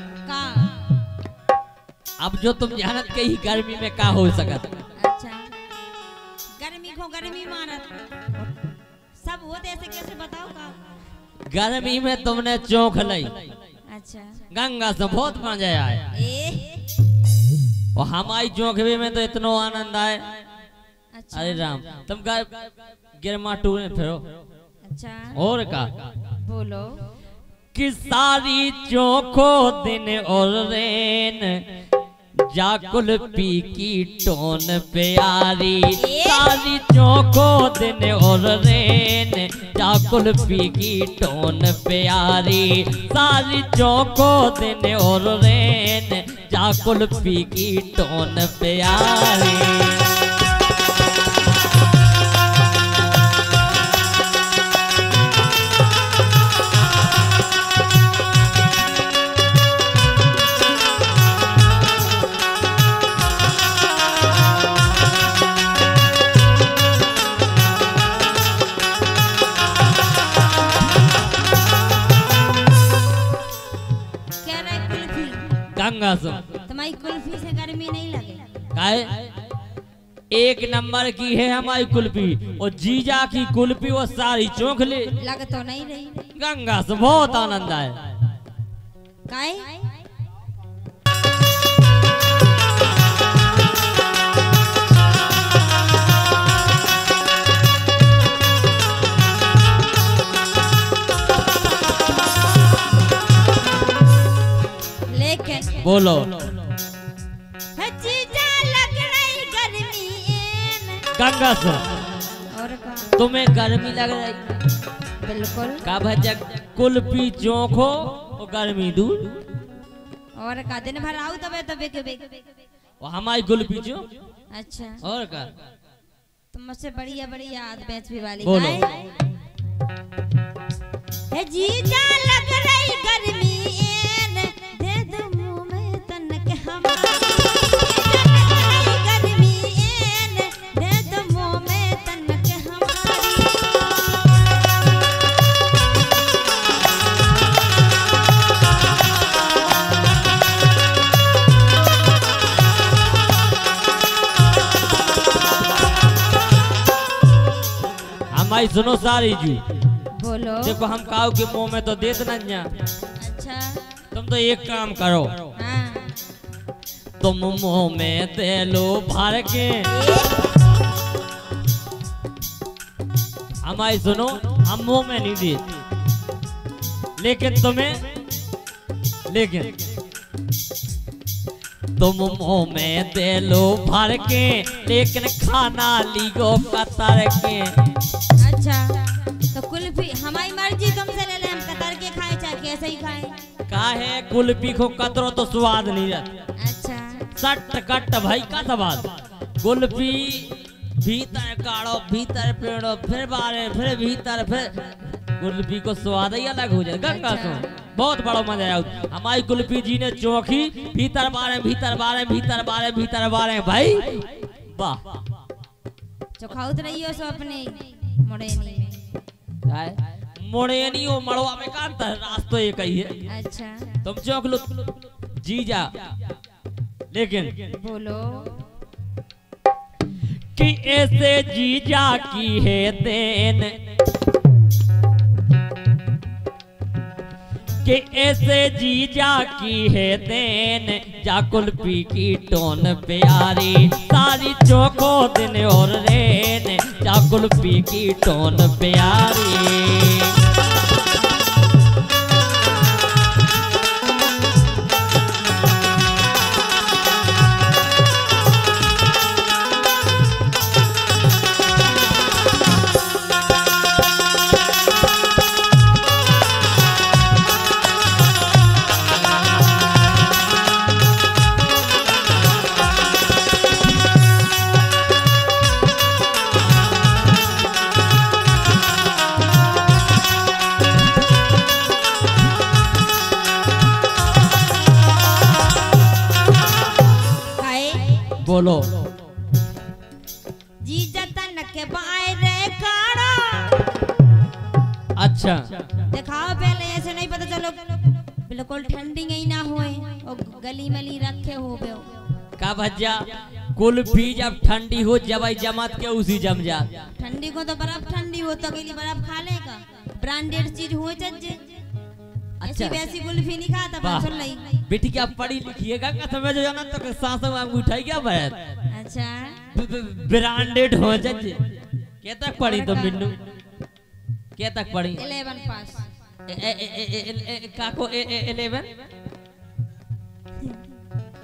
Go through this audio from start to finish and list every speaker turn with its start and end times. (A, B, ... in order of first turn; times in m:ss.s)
0:00.2-0:00.8 A
0:02.2-0:04.8 B
0:05.0-0:05.5 A
0:06.6-0:08.5 A
0:09.2-0:10.8 A
0:11.5-0:13.4 B
0:13.9-0:14.5 A
0:14.5-0:16.1 B
0:16.1-0:16.8 A
0:18.0-0:20.3 B
0:21.2-0:21.7 A
0:21.3-0:24.2 B
0:24.9-0:25.4 A
0:25.4-0:25.9 B
0:26.4-0:27.0 A
0:27.7-0:31.6 B
0:32.5-0:50.1 B
0:36.0-0:36.5 A
1:14.4-1:15.6 A
1:15.7-1:16.4 B
1:16.7-1:18.4 A
1:18.7-1:19.2 B
1:20.3-1:25.2 B
1:25.2-1:26.3 A
1:26.4-1:28.1 B
1:29.3-1:29.8 A
1:45.1-1:45.8 A
1:45.8-1:46.6 B
1:47.8-1:51.1 A
1:51.1-1:51.8 B
1:52.5-1:53.1 A
1:53.2-1:54.4 B
1:55.2-1:55.8 A
1:55.8-1:59.4 B
2:00.4-2:02.4 A
2:03.0-2:04.0 B
2:04.5-2:05.0 A
2:05.0-2:05.5 B
2:06.5-2:09.1 A
2:08.4-2:08.9 B
2:11.3-2:23.7 A
2:38.3-2:39.6 B
2:40.2-2:40.8 A
2:40.6-2:42.7 B
2:43.2-2:43.8 A
2:44.1-2:45.4 B
2:45.6-2:46.1 A
2:47.2-2:49.9 B
2:49.9-2:50.4 A
2:53.6-2:55.6 B
2:57.2-2:58.0 B
2:59.3-2:59.7 B
3:02.0-3:07.7 B
3:08.4-3:13.3 A
3:13.7-3:16.3 B
3:16.6-3:17.3 A
3:17.4-3:19.1 B
3:19.6-3:35.0 B
3:27.0-3:27.7 A
3:36.4-3:39.0 A
3:39.7-3:43.2 B
3:43.3-3:44.0 A
3:44.0-3:45.9 B
3:47.1-3:47.7 B
3:47.7-3:48.6 A
3:50.6-3:53.7 B
3:57.8-4:10.4 B
4:47.6-4:48.2 A
4:48.4-4:49.0 B
4:50.8-4:53.8 A
4:55.2-4:55.7 B
4:56.1-5:02.1 A
5:02.6-5:03.2 B
5:03.7-5:06.9 B
5:07.2-5:11.8 A
5:12.6-5:13.0 B
5:12.6-5:14.8 A
5:14.0-5:18.6 B
5:18.9-5:19.6 A
5:19.7-5:21.6 B
5:22.2-5:23.4 B
5:22.6-5:23.3 A
5:24.6-5:25.2 B
5:25.2-5:26.0 A
5:26.5-5:28.9 B